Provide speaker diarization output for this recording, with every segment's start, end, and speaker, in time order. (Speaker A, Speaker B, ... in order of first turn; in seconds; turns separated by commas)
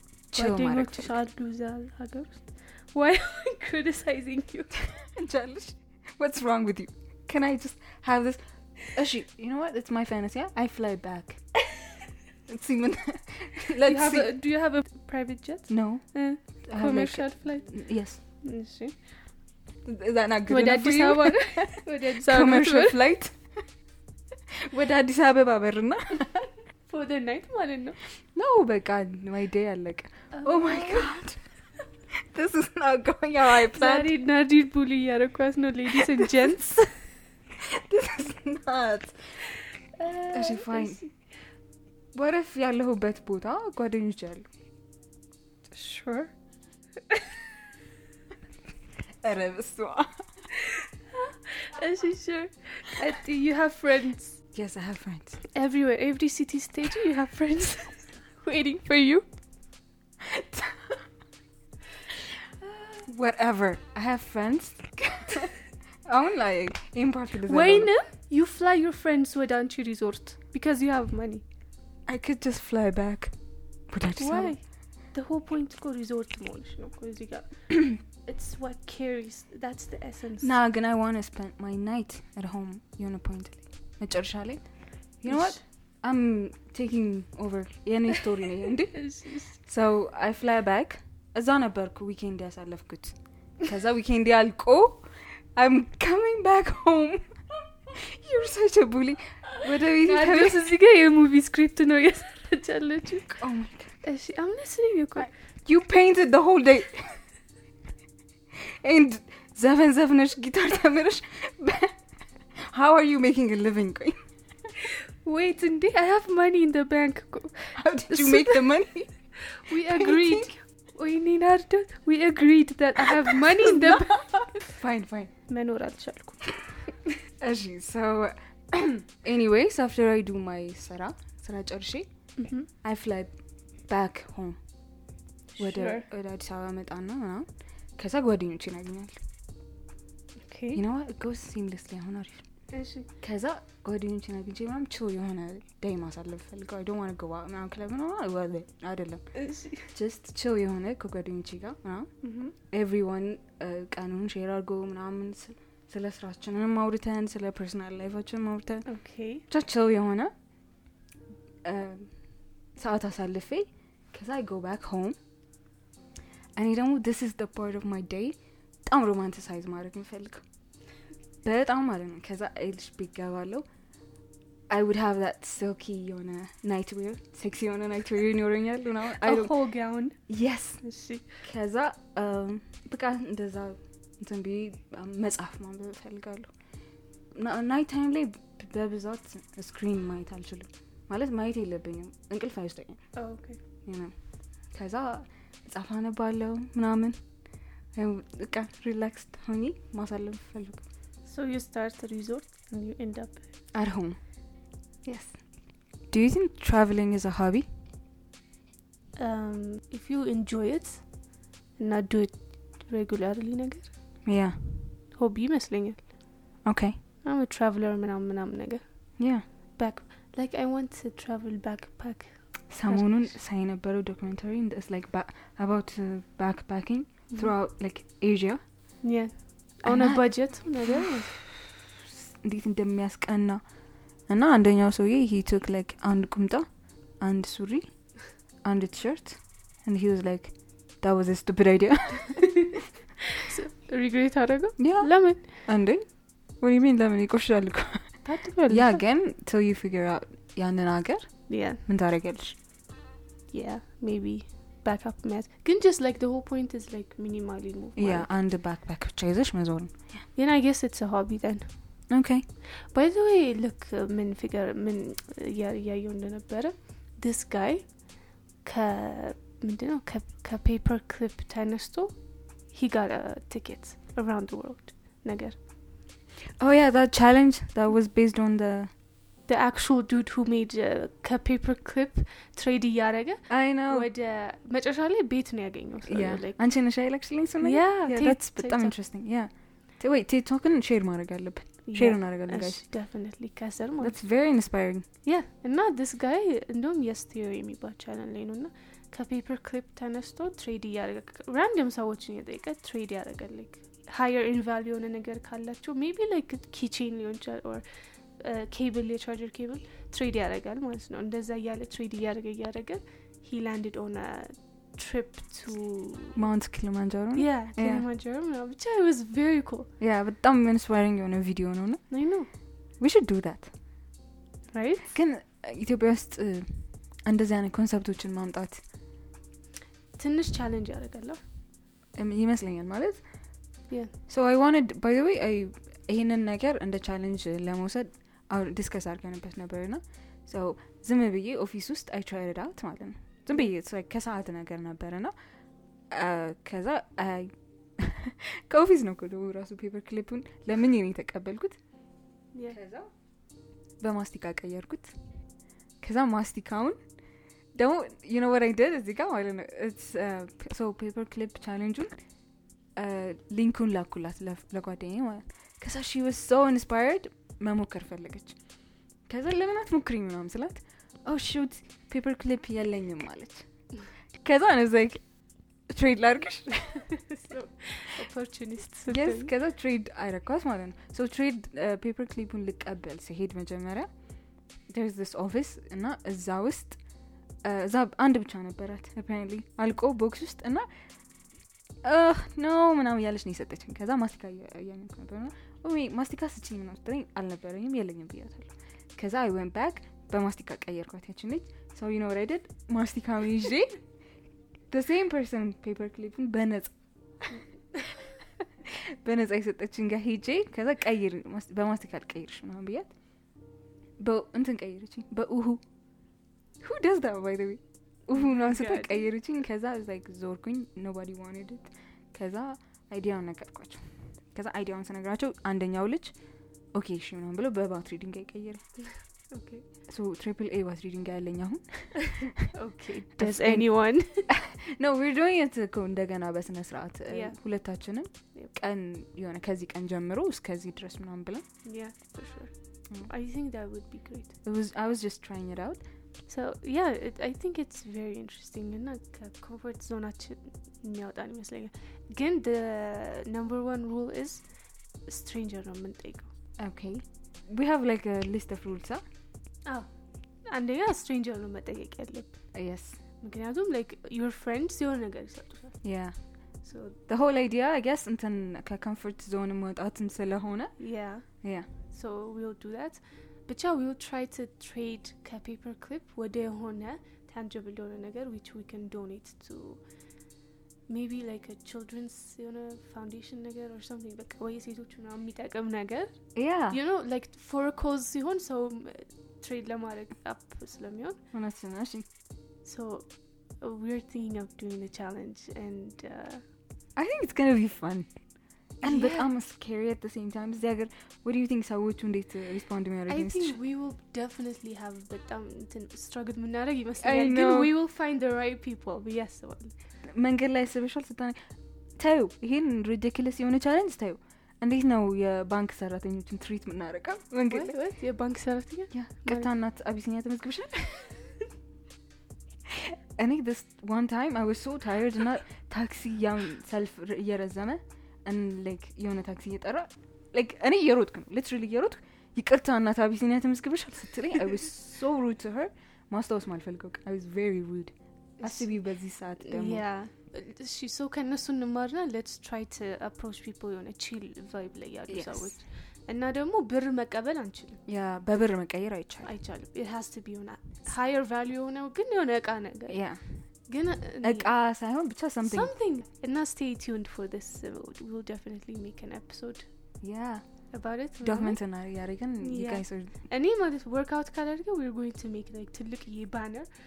Speaker A: 0.3-1.1, Speaker B: 0.3-4.8, Speaker A: 4.9-11.4, Speaker A: 12.5-14.3, Speaker B: 13.8-17.8, Speaker A: 15.7-18.2, Speaker B: 18.3-18.9, Speaker A: 19.8-23.4, Speaker B: 20.5-22.9, Speaker A: 24.7-26.5, Speaker B: 26.9-28.0, Speaker A: 28.3-31.4, Speaker B: 30.3-31.1, Speaker A: 32.1-34.1, Speaker B: 33.7-36.9, Speaker A: 36.0-36.5, Speaker A: 37.6-39.1, Speaker B: 40.0-41.1, Speaker A: 40.3-41.0, Speaker A: 42.1-44.4, Speaker B: 45.7-46.3, Speaker A: 49.2-50.1, Speaker B: 50.6-54.4, Speaker A: 54.5-55.4, Speaker B: 55.5-59.2, Speaker A: 60.2-61.0, Speaker A: 63.0-65.5, Speaker A: 66.0-67.9, Speaker B: 67.5-71.4, Speaker A: 72.1-73.3, Speaker A: 73.9-74.5, Speaker B: 74.2-80.5, Speaker A: 80.4-100.6, Speaker B: 85.3-85.6, Speaker B: 88.9-89.5, Speaker B: 100.0-103.4, Speaker A: 103.3-103.9, Speaker B: 104.0-105.3, Speaker A: 105.2-107.2, Speaker A: 108.5-112.0, Speaker A: 112.6-114.2, Speaker B: 115.2-118.7, Speaker A: 117.8-119.1, Speaker B: 119.4-124.4, Speaker A: 119.7-120.5, Speaker A: 123.5-125.3, Speaker B: 125.5-126.9, Speaker A: 127.4-132.1, Speaker B: 132.4-132.7, Speaker A: 132.7-133.3, Speaker A: 133.9-134.6, Speaker B: 135.6-136.1, Speaker A: 135.6-139.2, Speaker B: 140.5-140.8, Speaker A: 140.7-142.4, Speaker B: 142.7-143.1, Speaker A: 143.2-158.9, Speaker B: 149.3-149.9, Speaker B: 152.2-152.5, Speaker B: 158.9-159.4, Speaker A: 159.4-160.3, Speaker A: 161.6-162.1, Speaker A: 162.8-165.2, Speaker A: 166.5-170.4, Speaker A: 171.4-173.6, Speaker A: 174.7-179.5, Speaker B: 179.2-180.2, Speaker A: 180.3-180.8, Speaker B: 180.8-181.2, Speaker A: 181.4-186.5, Speaker A: 187.3-193.1, Speaker B: 193.1-193.6, Speaker A: 193.8-194.1, Speaker A: 194.7-197.2, Speaker A: 197.9-200.8, Speaker B: 201.2-203.5, Speaker A: 203.7-204.2, Speaker A: 205.0-205.4, Speaker A: 206.1-207.6, Speaker B: 209.2-211.1, Speaker B: 211.8-213.9, Speaker A: 214.2-214.6, Speaker B: 215.1-216.1, Speaker A: 216.6-217.0, Speaker B: 217.2-219.2, Speaker A: 219.2-219.4, Speaker B: 219.7-223.3, Speaker A: 222.7-228.6, Speaker B: 229.0-231.3, Speaker A: 229.8-231.7, Speaker A: 232.4-233.7, Speaker A: 234.2-236.7, Speaker A: 237.2-242.6, Speaker B: 243.4-245.5, Speaker A: 244.8-252.6, Speaker B: 248.2-249.0, Speaker B: 251.5-251.8, Speaker B: 253.5-258.3, Speaker A: 257.9-260.2, Speaker B: 260.3-262.1, Speaker A: 262.1-262.4, Speaker B: 262.9-275.6, Speaker A: 276.6-278.9, Speaker B: 279.4-286.6, Speaker A: 283.5-284.1, Speaker A: 286.1-292.8, Speaker B: 287.6-288.9, Speaker B: 291.9-294.1, Speaker A: 294.0-295.0, Speaker B: 295.2-307.8, Speaker B: 308.4-316.4, Speaker A: 316.4-318.1, Speaker B: 317.3-319.9, Speaker A: 320.0-322.2, Speaker B: 322.1-322.5, Speaker A: 323.0-323.7, Speaker B: 324.7-325.1, Speaker A: 325.0-328.8, Speaker B: 330.2-331.4, Speaker A: 332.1-333.2, Speaker B: 333.9-334.1, Speaker A: 334.3-345.3, Speaker A: 346.1-351.8, Speaker B: 352.5-352.8, Speaker A: 352.7-353.1, Speaker A: 354.0-355.1, Speaker A: 356.0-356.9, Speaker A: 357.7-362.1, Speaker A: 362.9-368.6, Speaker A: 369.3-373.6, Speaker A: 374.4-375.2, Speaker A: 375.9-377.0, Speaker B: 377.2-379.5, Speaker A: 379.1-384.1, Speaker A: 384.9-387.0, Speaker A: 387.6-390.9, Speaker A: 392.0-404.0, Speaker A: 404.9-406.9, Speaker A: 408.8-413.1, Speaker A: 414.2-415.8, Speaker A: 416.8-426.4, Speaker B: 418.3-419.3, Speaker A: 426.9-429.0, Speaker B: 429.5-429.8, Speaker A: 430.1-432.7, Speaker B: 432.4-434.5, Speaker A: 433.4-441.6, Speaker B: 437.3-437.6, Speaker B: 441.8-444.6, Speaker A: 444.6-446.0, Speaker B: 446.5-454.7, Speaker B: 455.2-456.5, Speaker A: 456.8-459.2, Speaker B: 460.6-462.6, Speaker A: 462.7-463.2, Speaker B: 463.4-466.0, Speaker A: 466.0-466.4, Speaker B: 466.8-467.2, Speaker A: 467.3-471.9, Speaker B: 471.0-480.0, Speaker B: 481.1-491.4, Speaker A: 486.5-487.0, Speaker A: 491.5-492.2, Speaker B: 492.8-496.6, Speaker A: 497.1-498.3, Speaker B: 499.0-499.5, Speaker A: 499.0-503.8, Speaker B: 503.3-509.9, Speaker A: 507.2-507.9, Speaker A: 510.3-511.6, Speaker A: 512.1-518.0, Speaker B: 517.7-519.7, Speaker A: 519.1-521.3, Speaker A: 522.9-540.0, Speaker B: 538.6-538.9, Speaker B: 539.6-548.0, Speaker A: 545.3-545.8, Speaker A: 548.0-549.5, Speaker B: 549.4-553.2, Speaker A: 553.1-553.6, Speaker B: 553.9-554.7, Speaker A: 554.4-555.9, Speaker B: 555.7-559.9, Speaker A: 560.2-563.3, Speaker B: 560.9-561.8, Speaker B: 562.6-566.9